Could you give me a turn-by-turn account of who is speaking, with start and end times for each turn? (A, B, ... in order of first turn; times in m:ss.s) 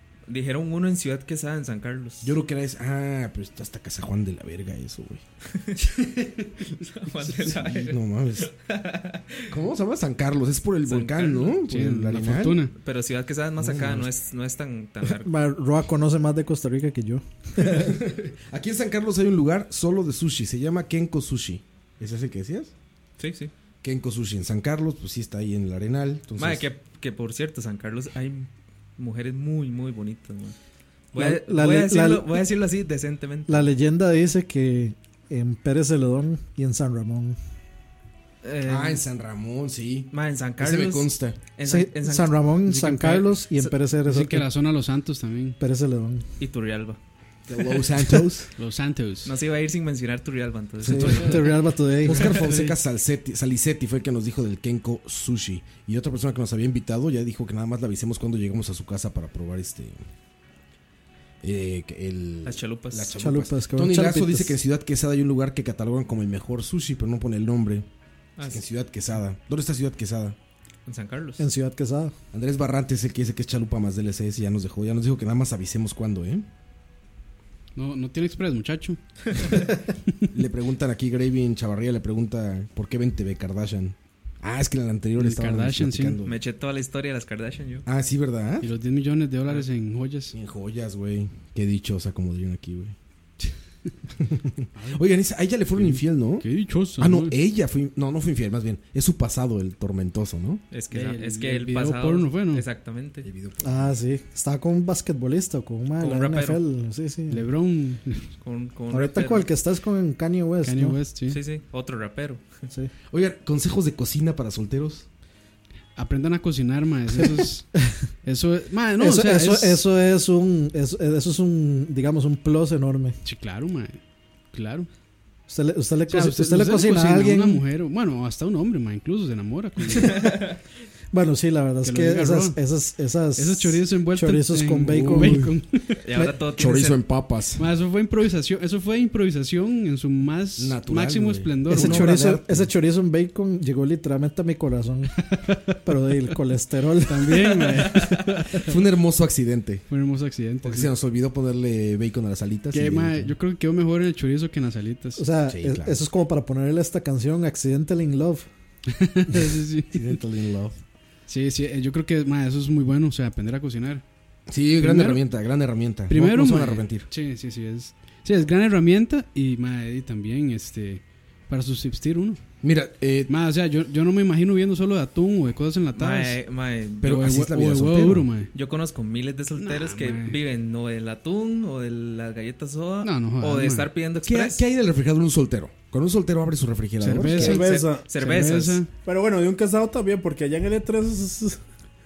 0:00.3-0:02.3 A
0:02.2-0:05.2 B
0:05.6-0:09.5 A
0:07.5-0:08.5 B
0:09.5-0:12.7 B
0:10.8-0:11.6 A
0:11.6-0:12.7 C
0:12.8-0:15.3 A
0:13.6-0:14.1 B
0:15.2-0:17.8 D
0:17.6-0:22.7 B
0:23.2-0:23.5 A
0:23.8-0:26.6 B
0:26.4-0:30.6 A
0:31.1-0:33.7 A
0:31.2-0:32.4 D
0:33.5-0:37.4 D
0:38.4-0:39.0 A
0:38.6-0:41.4 B
0:40.1-0:42.5 A
0:41.7-0:44.5 D
0:42.7-0:43.3 C
0:44.0-0:45.6 C
0:45.6-0:46.2 D
0:46.4-0:47.0 A
0:47.5-0:48.5 B
0:48.6-0:49.3 C
0:49.3-0:51.4 A
0:50.8-0:51.5 B
0:50.8-0:52.3 D
0:52.0-1:00.0 B
0:52.3-0:52.7 C
1:01.4-1:07.9 B
1:02.4-1:03.2 A
1:03.2-1:04.6 D
1:08.4-1:08.6 A
1:08.5-1:10.4 B
1:10.9-1:11.4 A
1:11.4-1:12.1 D
1:12.3-1:16.4 B
1:17.8-1:19.0 C
1:20.3-1:26.4 B
1:25.2-1:26.2 C
1:26.2-1:27.8 A
1:27.9-1:28.7 B
1:28.6-1:30.4 C
1:30.3-1:33.0 B
1:34.2-1:40.6 B
1:34.8-1:35.0 C
1:35.8-1:37.3 C
1:40.7-1:43.3 A
1:40.9-1:42.7 C
1:43.2-1:44.0 B
1:43.6-1:47.4 D
1:46.0-1:46.6 A
1:47.3-1:48.3 C
1:48.4-1:49.5 A
1:48.9-1:51.0 D
1:50.6-1:51.4 C
1:51.3-1:52.4 A
1:53.1-1:55.1 B
1:56.0-1:59.8 C
1:59.0-2:03.2 D
2:03.2-2:04.0 C
2:04.5-2:04.9 C
2:05.5-2:07.6 D
2:06.1-2:10.2 C
2:10.2-2:10.5 A
2:11.1-2:15.6 D
2:11.8-2:12.6 C
2:13.4-2:16.0 C
2:14.9-2:15.4 B
2:16.0-2:17.0 A
2:16.6-2:17.6 B
2:17.6-2:22.3 C
2:20.6-2:22.7 B
2:21.7-2:25.2 D
2:25.3-2:25.6 C
2:25.8-2:28.2 D
2:27.1-2:28.8 C
2:28.6-2:29.8 B
2:29.9-2:30.9 C
2:30.6-2:33.3 B
2:32.7-2:35.2 C
2:35.2-2:38.5 D
2:35.5-2:36.0 B
2:38.9-2:40.2 C
2:39.9-2:40.8 B
2:41.3-2:44.0 C
2:44.5-2:47.1 B
2:44.8-2:45.2 C
2:46.1-2:52.4 C
2:52.6-2:53.3 B
2:53.3-2:56.4 C
2:56.0-2:57.2 A
2:57.0-2:58.3 B
2:57.1-2:58.5 C
2:58.5-3:04.6 A
2:59.6-3:00.4 C
3:03.0-3:03.9 C
3:04.2-3:07.6 B
3:07.0-3:08.9 C
3:07.2-3:08.8 A
3:07.3-3:08.1 E
3:09.0-3:11.6 E